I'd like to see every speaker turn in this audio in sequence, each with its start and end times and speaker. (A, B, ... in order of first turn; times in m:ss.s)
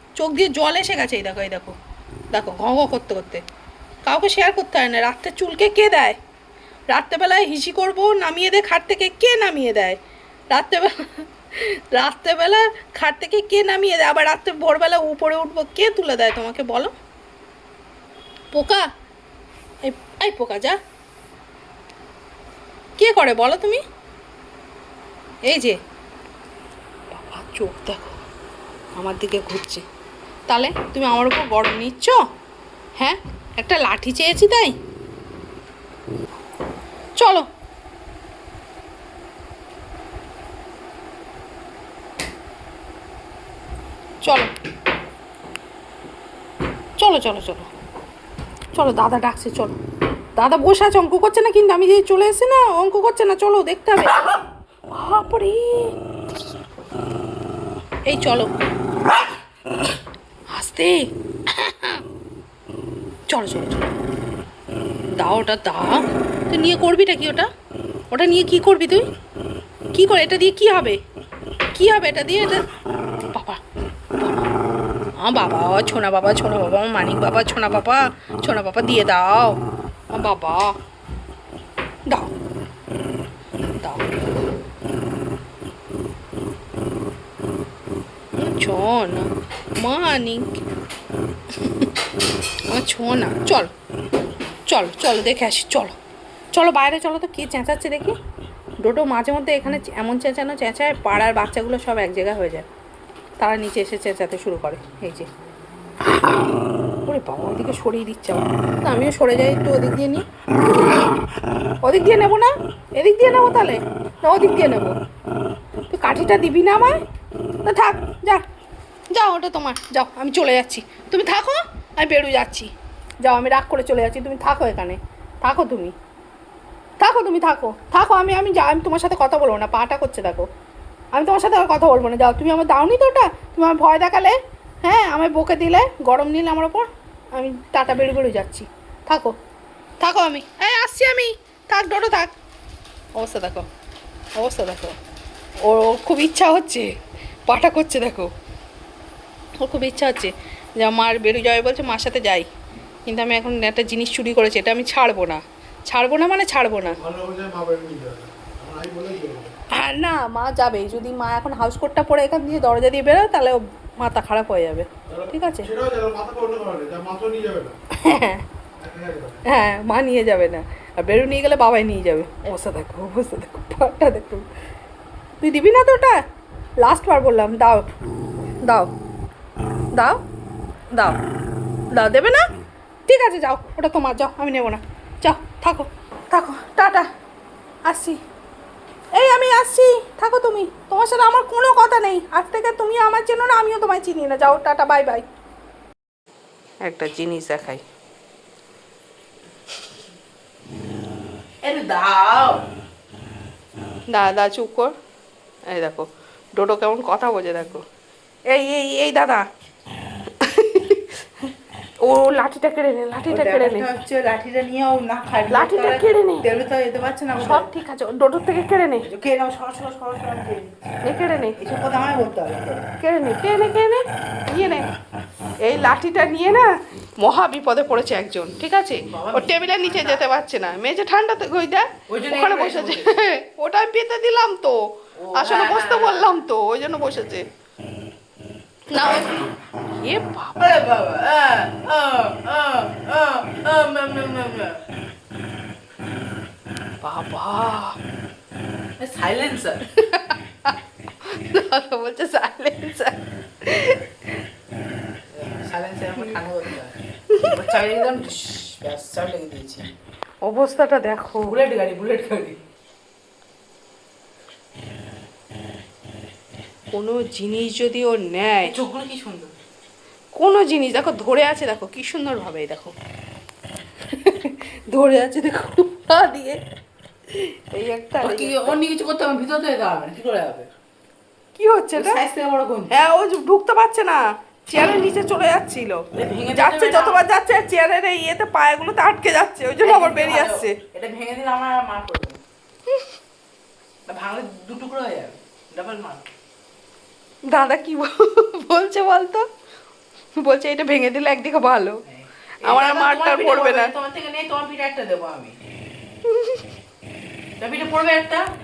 0:00.2-0:01.8 A
0:02.3-0:03.4 A
0:04.0-0:06.2 A
0:06.9-0:10.0 A
0:10.5-0:16.9 A
0:18.5-0:18.9 A
0:19.9-0:20.8 A
0:23.0-0:23.8 A
0:25.5-0:25.8 A
0:27.1-0:28.2 A
0:29.0-0:29.8 A
0:30.5-0:32.2 A
0:33.0-0:34.7 A
0:37.2-0:37.5 A
0:44.2-0:44.5 A
0:47.0-0:47.7 A
0:48.7-0:49.7 A
0:50.4-0:54.3 A
0:54.9-0:55.9 A
0:58.1-0:58.5 A
1:00.5-1:02.0 A
1:03.3-1:03.9 A
1:05.2-1:07.5 A
1:08.1-1:09.1 A
1:09.9-1:11.0 A
1:11.7-1:12.6 A
1:13.3-1:13.6 A
1:15.2-1:19.6 A
1:20.1-1:20.7 A
1:23.8-1:24.1 A
1:28.4-1:30.5 A
1:31.6-1:31.9 A
1:32.7-1:33.7 A
1:34.7-1:36.0 A
1:36.5-1:38.2 A
1:38.8-1:42.7 A
1:43.4-1:45.3 A
1:47.1-1:50.2 A
1:51.8-1:55.0 A
1:55.9-1:57.0 A
1:57.6-1:58.4 A
1:59.1-2:02.7 A
2:03.2-2:05.9 A
2:07.0-2:10.5 A
2:11.1-2:19.3 A
2:20.0-2:22.3 A
2:23.2-2:23.7 A
2:24.4-2:25.0 A
2:25.6-2:26.9 A
2:27.5-2:28.3 A
2:29.6-2:32.5 A
2:33.1-2:37.0 A
2:37.0-2:39.5 B
2:39.7-2:45.7 A
2:45.1-2:47.8 B
2:48.0-2:48.4 A
2:48.8-2:49.4 B
2:49.5-2:54.5 A
2:55.4-2:56.2 A
2:56.8-2:57.9 A
3:00.0-3:00.2 A
3:00.9-3:01.2 A
3:01.9-3:02.4 A
3:03.1-3:07.1 A
3:07.9-3:08.2 A
3:09.2-3:15.3 A
3:16.8-3:17.8 A
3:21.6-3:22.6 C
3:24.1-3:24.9 A
3:25.7-3:27.8 A
3:28.5-3:29.4 A
3:30.4-3:31.1 A
3:32.0-3:33.9 A
3:33.3-3:37.7 C
3:35.5-3:36.5 A
3:37.4-3:39.1 A
3:39.0-3:41.0 C
3:41.0-3:41.6 A
3:41.6-3:42.9 C
3:43.0-3:44.9 A
3:45.6-3:54.8 A
3:49.0-3:50.2 C
3:52.1-3:53.2 C
3:55.2-3:56.4 C
3:55.3-3:57.4 A
3:58.9-4:00.6 A
3:59.0-3:59.3 C
4:00.6-4:04.8 C
4:07.0-4:08.0 A
4:09.0-4:09.8 C
4:09.9-4:10.7 A
4:11.2-4:14.0 A
4:15.3-4:19.9 C
4:17.3-4:17.8 A
4:20.4-4:21.6 A
4:21.4-4:22.6 C
4:26.9-4:28.8 A
4:28.6-4:29.5 C
4:30.4-4:32.9 A
4:34.1-4:36.6 A
4:37.3-4:38.8 A
4:38.2-4:40.7 C
4:41.6-4:42.2 A
4:41.9-4:42.9 C
4:42.9-4:50.8 A
4:46.1-4:47.2 C
4:49.8-4:52.4 C
4:54.1-4:56.2 C
4:57.5-4:59.4 A
5:00.4-5:02.0 A
5:02.1-5:05.6 C
5:02.6-5:03.9 A
5:06.3-5:06.6 A
5:07.6-5:08.5 C